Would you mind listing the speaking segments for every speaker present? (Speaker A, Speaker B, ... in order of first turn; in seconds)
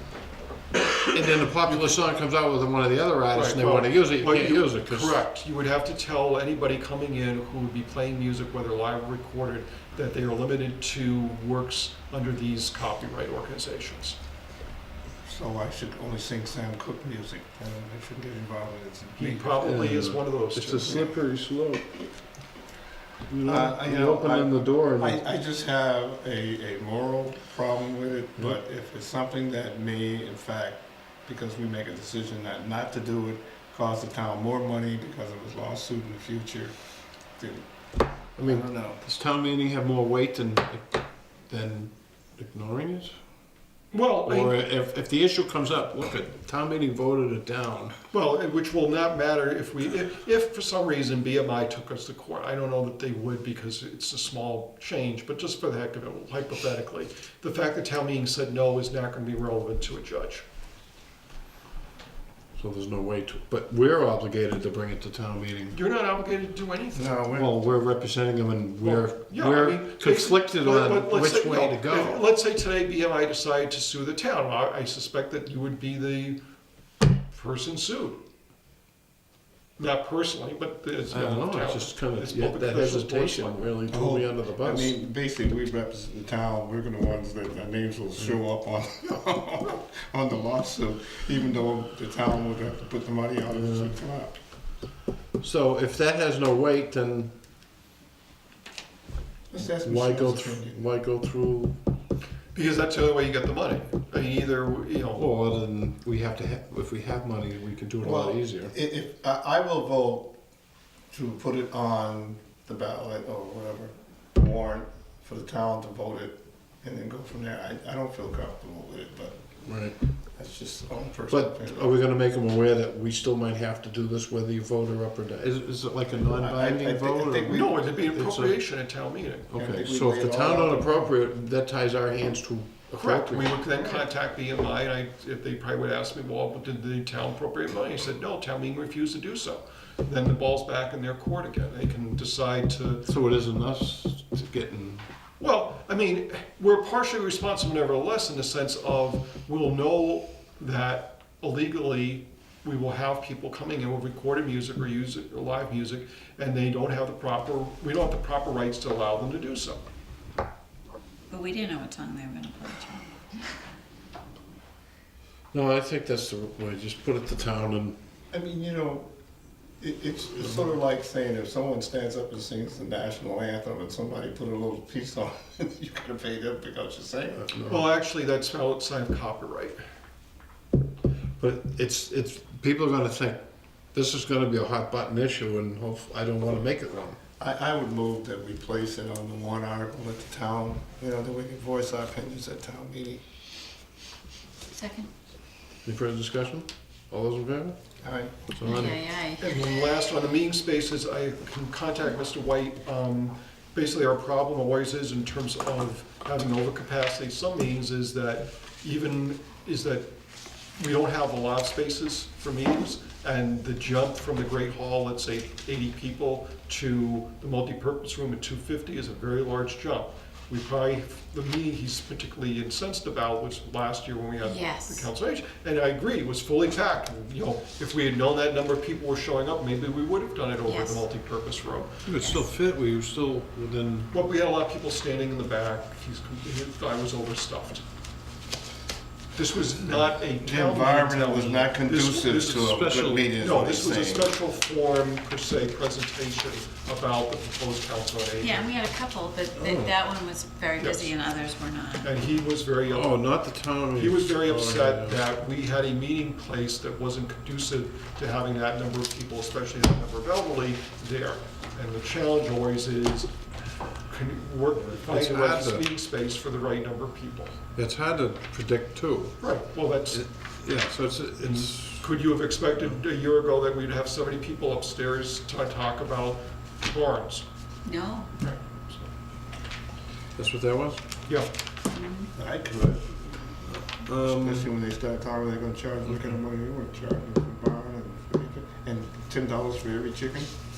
Speaker A: 0.9-5.2, 19.6-21.9, 23.3-25.2, 38.4-43.1, 44.2-47.9, 62.5-65.8, 67.3-72.2, 81.1-85.0, 93.5-93.9, 95.4-97.3, 99.6-101.8, 105.1-108.7, 119.6-120.0, 121.3-128.6, 129.5-133.6, 143.1-145.1, 165.5-168.0, 177.4-177.8, 181.4-183.4, 183.9-187.2, 195.8-197.8, 198.5-199.0, 232.0-234.1, 242.5-243.3, 249.5-250.0, 252.8-255.2, 265.0-265.9, 267.7-269.4, 270.1-272.1, 280.4-281.0, 283.9-284.7
Speaker B: 3.3-14.2, 19.2-21.1, 43.9-44.6, 48.1-60.4, 65.7-67.2, 68.8-76.4, 77.3-78.2, 79.8-83.6, 102.5-105.2, 127.5-129.5, 133.0-143.1, 145.4-159.8, 177.7-179.8, 199.4-210.1, 210.8-232.0, 234.1-237.8, 239.3-248.8, 250.8-251.1, 252.0-253.3, 253.9-263.3, 264.1-267.6, 269.4-270.2, 271.4-277.4, 278.4-279.1
Speaker C: 15.2-19.5, 23.4-36.7, 37.4-37.6, 38.4-39.0, 66.9-67.6, 83.9-94.3, 99.5-100.8, 108.0-110.3, 111.1-119.6, 120.3-122.0, 126.2-127.7, 129.5-131.1, 168.3-169.1, 169.8-177.5, 187.4-193.2, 198.0-198.4, 240.4-244.3, 282.4-283.4, 284.1-290.5
Speaker D: 161.3-163.4, 194.7-195.1, 198.6-199.6, 224.4-225.1, 230.7-231.0, 248.4-252.1, 277.8-278.3, 281.9-282.3